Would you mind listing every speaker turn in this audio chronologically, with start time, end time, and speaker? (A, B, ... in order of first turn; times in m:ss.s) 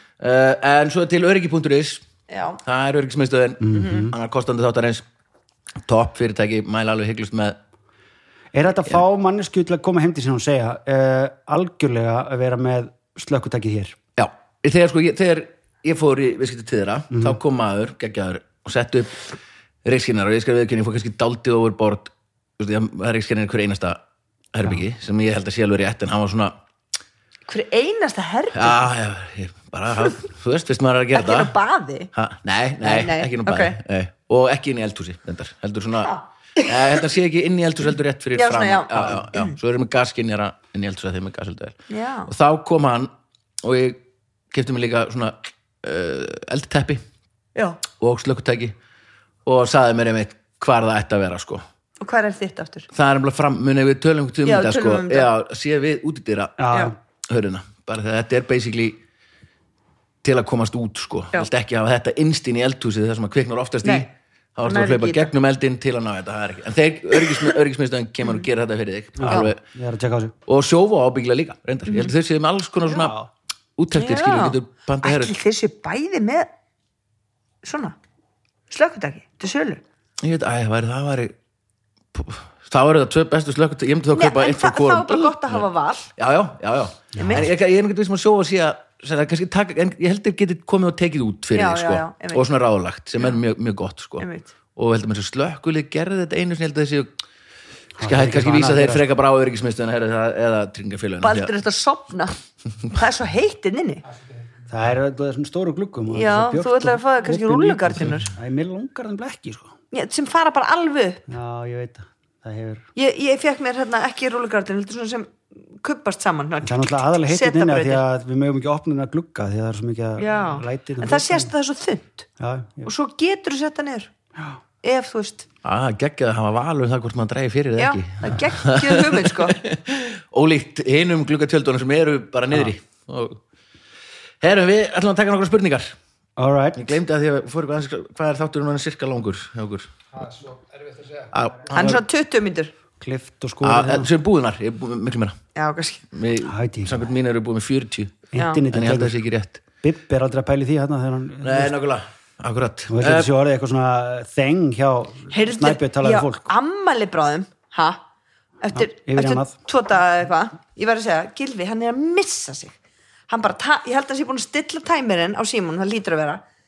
0:00.2-0:02.0 A
0:02.3-0:02.6 B
0:02.6-0:05.0 A
0:03.6-0:04.1 C
0:03.8-0:04.1 B
0:05.8-0:07.6 A
0:08.5-0:14.0 C
0:14.2-0:19.2 A
0:17.1-0:17.4 C
0:19.8-0:24.0 A
0:24.5-0:26.6 A
0:27.5-0:28.9 B
0:28.5-0:31.5 A
0:31.1-0:32.1 B
0:32.1-0:43.1 A
0:32.8-0:33.8 B
0:38.4-0:39.6 B
0:41.9-0:42.3 B
0:43.6-0:44.0 A
0:44.5-0:47.0 A
0:48.0-0:48.7 A
0:49.4-0:51.6 A
0:52.0-0:52.9 B
0:52.9-0:56.6 A
0:54.4-0:55.3 B
0:56.6-0:57.0 C
0:57.3-0:59.0 A
1:00.2-1:09.6 A
1:04.7-1:05.3 B
1:09.2-1:10.4 C
1:10.5-1:13.2 A
1:12.9-1:13.3 C
1:13.8-1:15.3 A
1:13.9-1:16.5 B
1:17.6-1:18.0 B
1:18.7-1:19.8 B
1:20.2-1:21.4 A
1:22.1-1:25.6 A
1:24.1-1:26.1 B
1:26.2-1:37.1 A
1:27.2-1:27.5 C
1:27.2-1:27.5 B
1:31.5-1:32.5 B
1:34.2-1:34.5 B
1:38.0-1:39.0 C
1:38.0-1:41.5 A
1:41.2-1:42.4 B
1:42.9-1:44.0 B
1:44.7-1:49.7 C
1:46.1-1:48.3 B
1:49.9-1:51.3 B
1:51.3-1:52.9 C
1:53.0-1:58.0 B
1:56.6-2:01.5 C
2:00.2-2:02.3 B
2:02.4-2:02.9 C
2:02.8-2:04.1 B
2:04.8-2:05.5 B
2:05.6-2:13.4 A
2:07.8-2:09.6 B
2:14.4-2:16.0 A
2:16.4-2:16.9 C
2:16.8-2:19.9 A
2:21.3-2:22.0 A
2:21.7-2:22.7 B
2:23.0-2:24.1 C
2:23.6-2:25.4 A
2:25.6-2:26.1 B
2:26.1-2:29.6 A
2:26.4-2:27.1 C
2:28.3-2:29.2 C
2:28.4-2:28.6 B
2:29.8-2:31.7 C
2:31.4-2:33.3 A
2:32.9-2:36.5 C
2:35.3-2:38.0 B
2:38.6-2:42.8 B
2:38.8-2:39.5 C
2:43.3-2:46.4 B